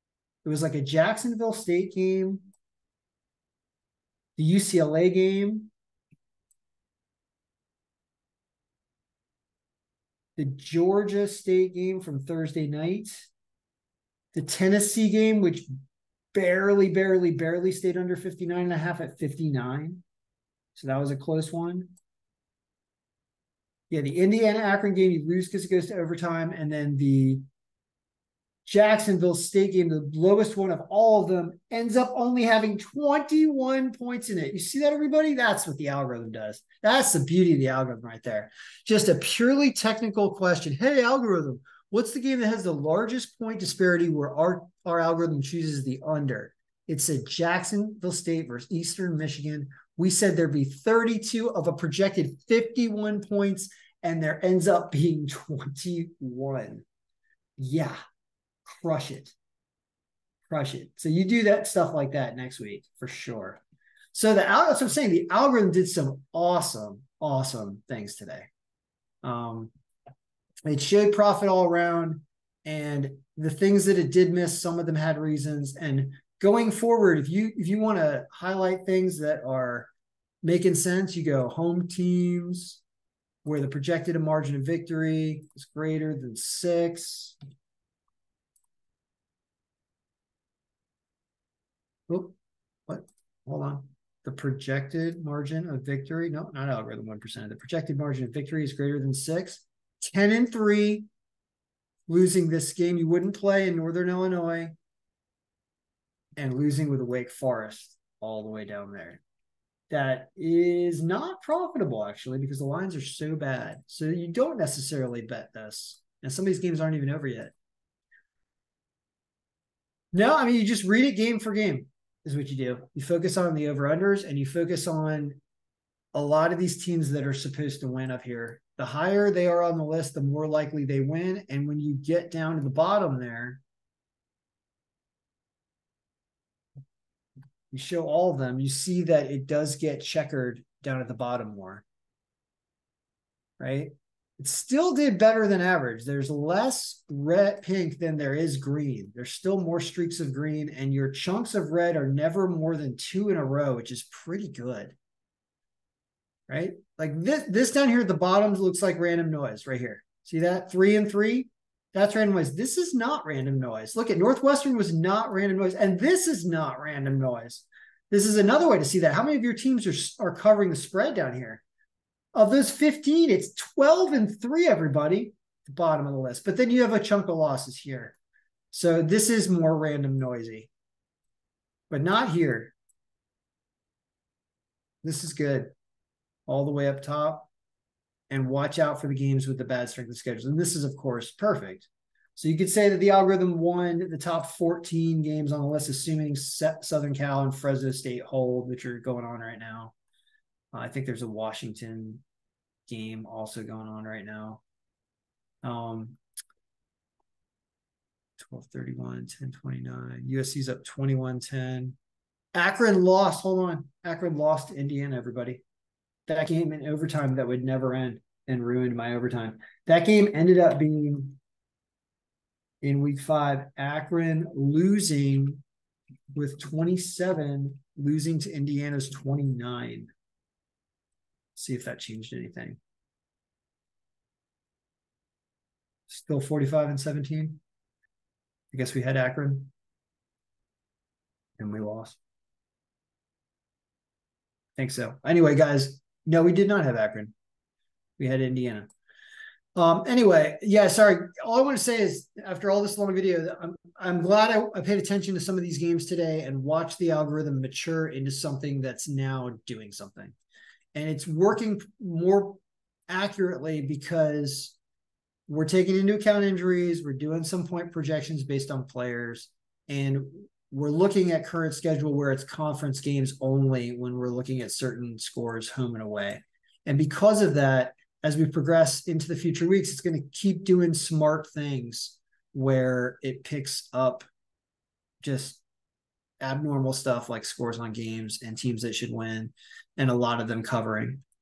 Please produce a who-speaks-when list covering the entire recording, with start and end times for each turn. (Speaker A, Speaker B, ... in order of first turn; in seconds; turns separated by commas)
Speaker A: 0.4-2.4, Speaker A: 4.4-5.7, Speaker A: 10.4-13.3, Speaker A: 14.3-15.7, Speaker A: 16.3-20.0, Speaker A: 20.7-21.9, Speaker A: 23.9-27.4, Speaker A: 28.6-56.9, Speaker A: 57.6-58.0, Speaker A: 58.7-59.4, Speaker A: 60.5-63.6, Speaker A: 64.1-68.5, Speaker A: 69.2-69.7, Speaker A: 70.6-79.9, Speaker A: 80.4-82.8, Speaker A: 83.4-87.3, Speaker A: 92.1-92.3, Speaker A: 92.9-101.1, Speaker A: 102.1-104.7, Speaker A: 106.4-109.2, Speaker A: 109.9-117.5, Speaker A: 120.1-125.4, Speaker A: 126.1-133.6, Speaker A: 137.7-141.8, Speaker A: 143.6-155.0, Speaker A: 156.5-171.6, Speaker A: 172.3-178.2, Speaker A: 178.7-180.7, Speaker A: 181.9-182.7, Speaker A: 185.0-185.7, Speaker A: 186.5-187.5, Speaker A: 188.3-199.9, Speaker A: 200.7-202.2, Speaker A: 202.9-204.6, Speaker A: 205.6-206.2, Speaker A: 208.4-212.0, Speaker A: 212.5-215.6, Speaker A: 216.3-221.4, Speaker A: 222.8-225.6, Speaker A: 226.3-230.1, Speaker A: 231.5-232.8, Speaker A: 236.1-237.6, Speaker A: 238.7-239.7, Speaker A: 241.6-242.2, Speaker A: 244.8-247.3, Speaker A: 248.2-248.9, Speaker A: 249.7-260.4, Speaker A: 260.9-264.8, Speaker A: 265.5-284.3, Speaker A: 285.2-285.6, Speaker A: 286.4-291.2